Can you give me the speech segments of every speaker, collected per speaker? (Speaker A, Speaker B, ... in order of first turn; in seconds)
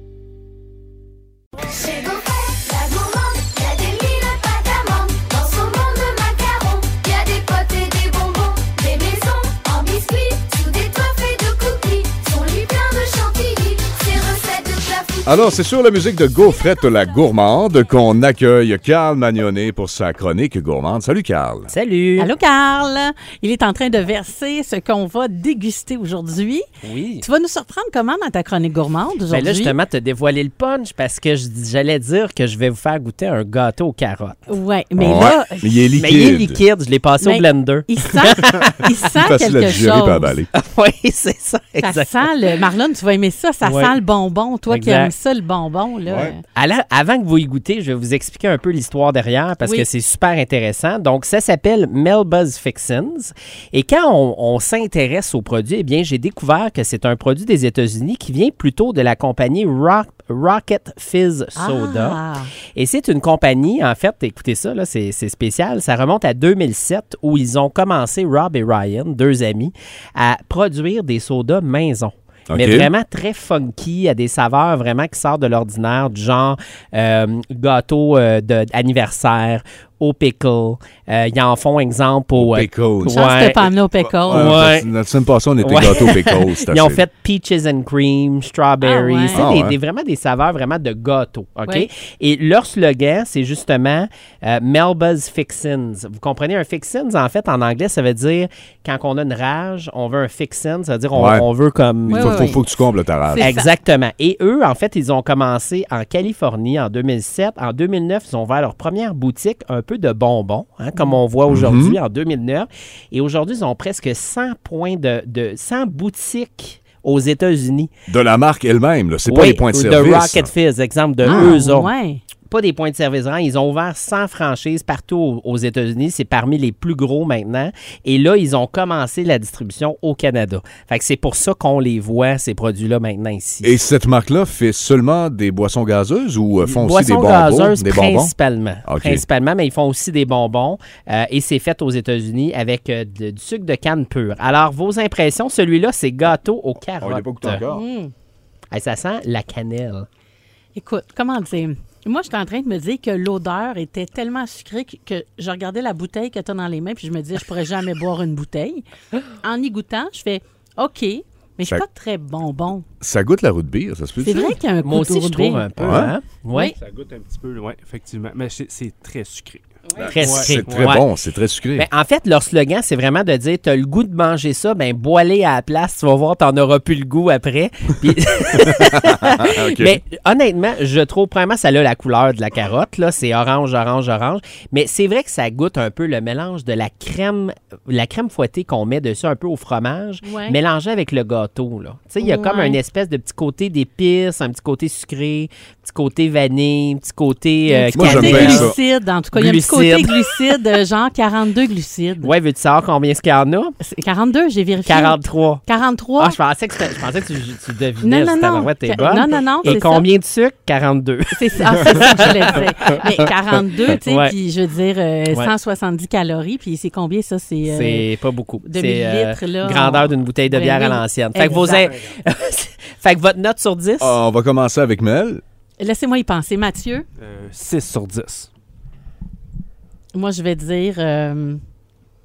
Speaker A: 1.7-15.3
Speaker B: 15.2-21.7, 35.0-36.6, 39.1-40.5, 46.1-46.4, 72.5-72.9, 82.4-83.2, 84.2-87.0, 89.3-89.8, 101.1-101.5, 102.1-103.5, 111.5-112.0, 118.1-120.5, 133.6-138.3, 138.8-139.2, 147.0-147.8, 163.0-164.6, 165.8-166.1, 170.1-171.9, 178.8-180.0, 197.9-198.8, 224.0-225.4
Speaker C: 21.7-22.3, 26.8-27.3, 29.3-34.4, 36.0-38.8, 40.5-42.3, 43.6-44.0, 44.7-45.1, 46.5-62.2, 62.7-83.7, 84.3-84.9, 85.6-102.7, 103.4-117.9, 119.3-121.9, 122.5-133.8, 136.6-147.7, 148.7-150.1, 164.8-166.7, 170.0-171.1, 171.8-198.7, 199.3-200.4, 202.2-203.8, 204.8-205.7, 206.2-213.3, 213.9-214.4, 217.7-224.2
Speaker D: 22.2-26.6, 27.2-29.8, 34.5-35.8, 37.2-40.4, 41.8-46.4, 61.6-62.5, 83.1-84.6, 88.8-89.4, 102.1-102.7, 103.2-103.7, 121.2-122.2, 147.7-148.1, 150.8-158.9, 159.4-162.8, 164.2-165.7, 190.2-190.6, 192.2-192.8, 197.7-202.3, 203.8-206.4, 208.0-210.1, 211.3-218.1, 218.7-221.9, 225.8-227.1, 230.1-231.6
Speaker E: 166.8-170.9, 227.2-228.5